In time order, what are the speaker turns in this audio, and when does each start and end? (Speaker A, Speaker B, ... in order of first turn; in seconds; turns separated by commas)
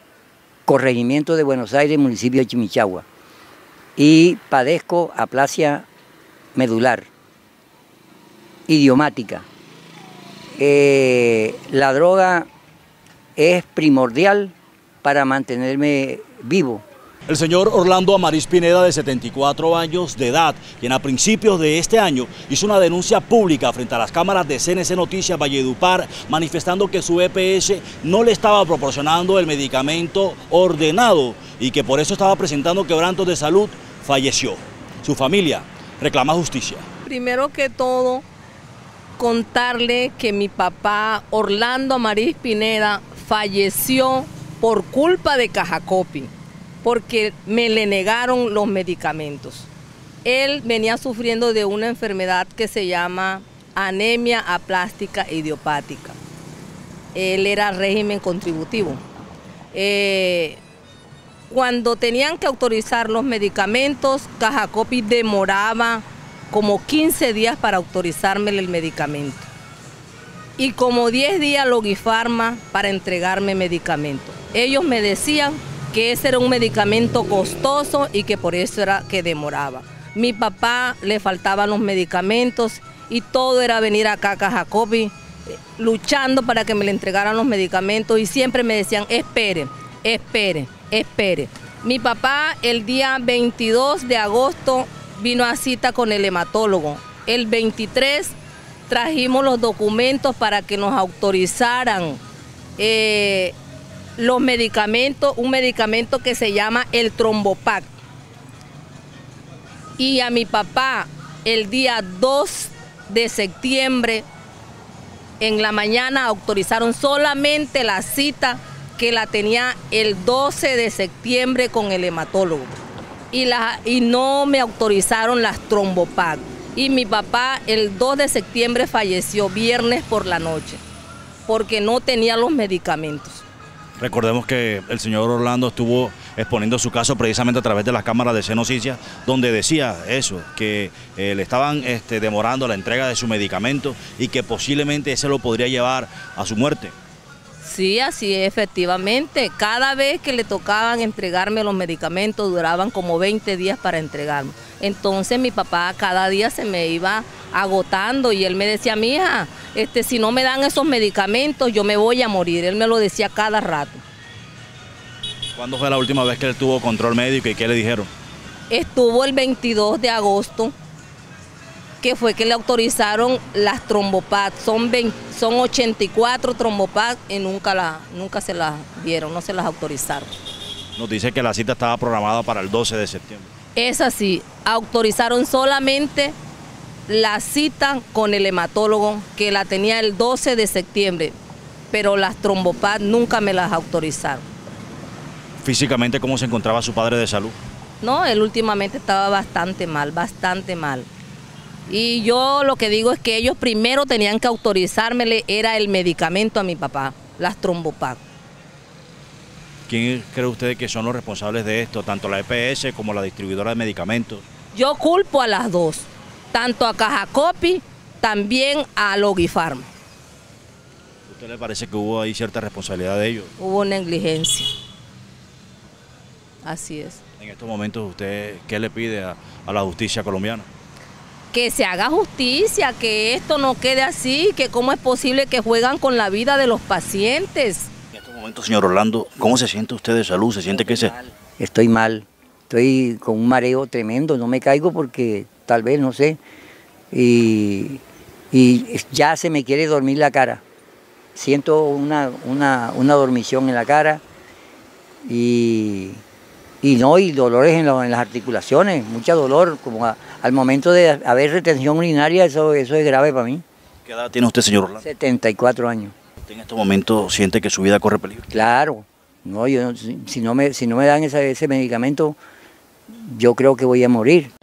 Speaker A: 0.7-3.1, Speaker A: 4.0-5.9, Speaker A: 6.5-7.1, Speaker A: 8.7-9.5, Speaker A: 10.6-12.5, Speaker A: 13.4-16.9, Speaker B: 17.3-36.9, Speaker C: 37.0-38.2, Speaker C: 39.2-46.3, Speaker C: 46.8-49.7, Speaker C: 50.2-56.2, Speaker C: 57.1-59.0, Speaker C: 59.7-60.6, Speaker C: 61.5-69.5, Speaker C: 70.6-85.2, Speaker C: 85.8-98.4, Speaker C: 98.9-102.2, Speaker C: 102.8-103.5, Speaker C: 104.2-107.9, Speaker C: 110.0-114.3, Speaker C: 115.4-122.8, Speaker C: 123.3-130.8, Speaker C: 131.5-133.4, Speaker B: 134.0-146.9, Speaker C: 147.6-164.0, Speaker B: 165.6-168.1, Speaker C: 168.7-170.7, Speaker C: 172.0-180.4, Speaker B: 181.0-183.5, Speaker C: 183.8-186.3, Speaker C: 187.1-191.3, Speaker C: 191.9-194.4, Speaker B: 195.6-197.6, Speaker C: 198.0-201.1, Speaker C: 201.9-208.2, Speaker B: 209.9-214.5, Speaker C: 214.7-219.9, Speaker B: 221.3-223.5, Speaker C: 223.6-224.7, Speaker C: 226.6-227.2, Speaker B: 227.4-230.7, Speaker C: 231.5-237.9, Speaker B: 238.1-241.1, Speaker A: 240.8-246.4, Speaker A: 247.1-250.6, Speaker A: 251.3-254.2, Speaker A: 255.3-256.2, Speaker A: 256.8-263.6, Speaker B: 264.1-265.0, Speaker A: 265.0-266.1, Speaker B: 266.4-268.5, Speaker A: 268.5-272.4, Speaker A: 273.1-274.5